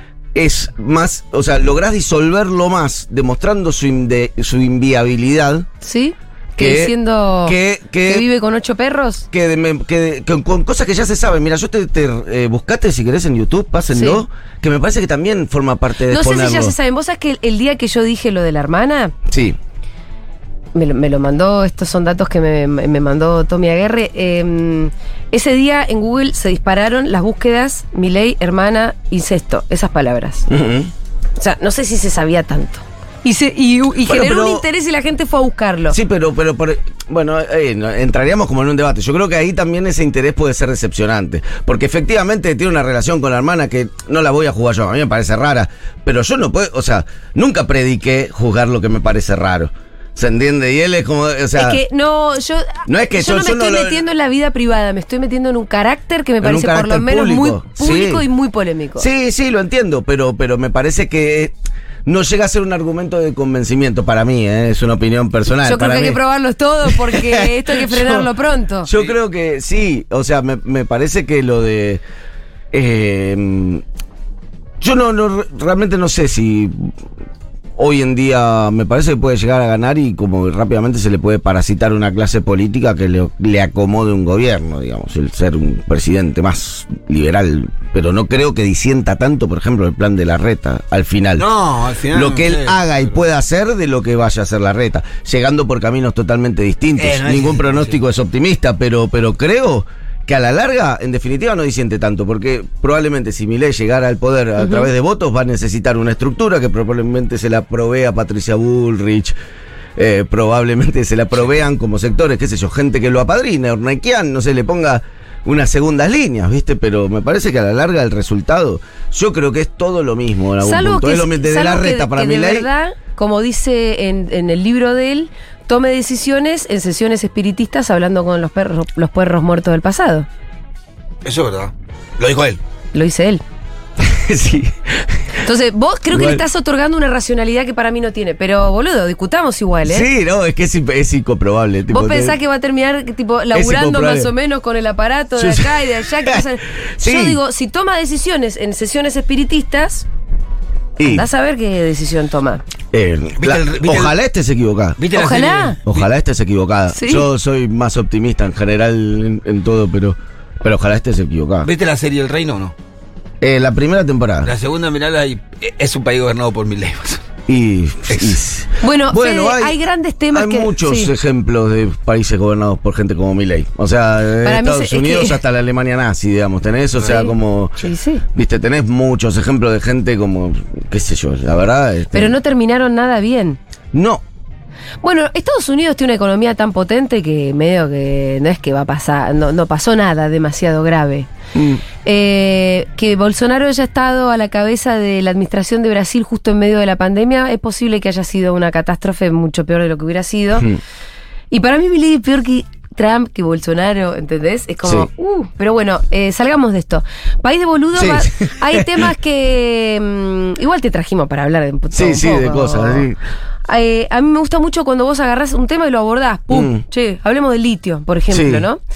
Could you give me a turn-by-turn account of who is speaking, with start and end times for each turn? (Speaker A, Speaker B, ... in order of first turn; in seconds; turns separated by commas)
Speaker A: 0.3-5.7, Speaker B: 5.8-9.2, Speaker A: 6.6-6.9, Speaker A: 7.4-8.2, Speaker A: 9.3-16.7, Speaker B: 13.9-14.2, Speaker B: 16.1-19.1, Speaker A: 19.3-19.6, Speaker B: 20.7-30.5, Speaker A: 30.5-30.9, Speaker B: 31.4-36.0, Speaker A: 34.0-34.6, Speaker A: 35.9-51.8, Speaker B: 51.5-59.0, Speaker A: 52.9-54.0, Speaker A: 56.4-58.2, Speaker A: 59.0-61.5, Speaker A: 62.0-66.2, Speaker B: 65.6-68.9, Speaker A: 66.8-68.3, Speaker A: 68.8-72.0, Speaker A: 72.7-73.8, Speaker A: 74.8-76.9, Speaker A: 77.8-91.5, Speaker C: 91.4-93.0, Speaker A: 92.1-109.3, Speaker C: 97.0-98.0, Speaker B: 104.6-104.9, Speaker A: 110.0-122.7, Speaker B: 120.6-130.2, Speaker C: 131.2-132.6, Speaker B: 132.9-133.4, Speaker A: 134.0-135.4, Speaker B: 135.4-140.1, Speaker A: 136.1-136.4, Speaker A: 139.8-142.4, Speaker B: 141.9-150.1, Speaker A: 143.5-144.3, Speaker A: 145.4-147.4, Speaker A: 151.0-151.3, Speaker B: 151.0-152.6, Speaker A: 152.9-155.0, Speaker C: 153.4-154.1, Speaker C: 155.0-156.1, Speaker B: 155.1-155.8, Speaker A: 155.8-161.7, Speaker B: 156.9-157.3, Speaker C: 161.6-162.7, Speaker A: 163.4-164.5, Speaker C: 164.4-167.2, Speaker A: 167.5-169.8, Speaker C: 168.1-168.4, Speaker B: 168.8-171.1, Speaker A: 170.3-182.3, Speaker B: 174.4-175.4, Speaker B: 177.0-178.2, Speaker B: 182.1-183.6, Speaker A: 183.9-184.2, Speaker B: 185.0-191.3, Speaker A: 191.5-191.8, Speaker B: 192.0-200.7, Speaker B: 201.5-213.1, Speaker A: 204.8-205.1, Speaker A: 207.9-209.1, Speaker A: 211.9-213.2, Speaker B: 213.7-218.8, Speaker A: 216.5-216.8, Speaker A: 218.3-218.7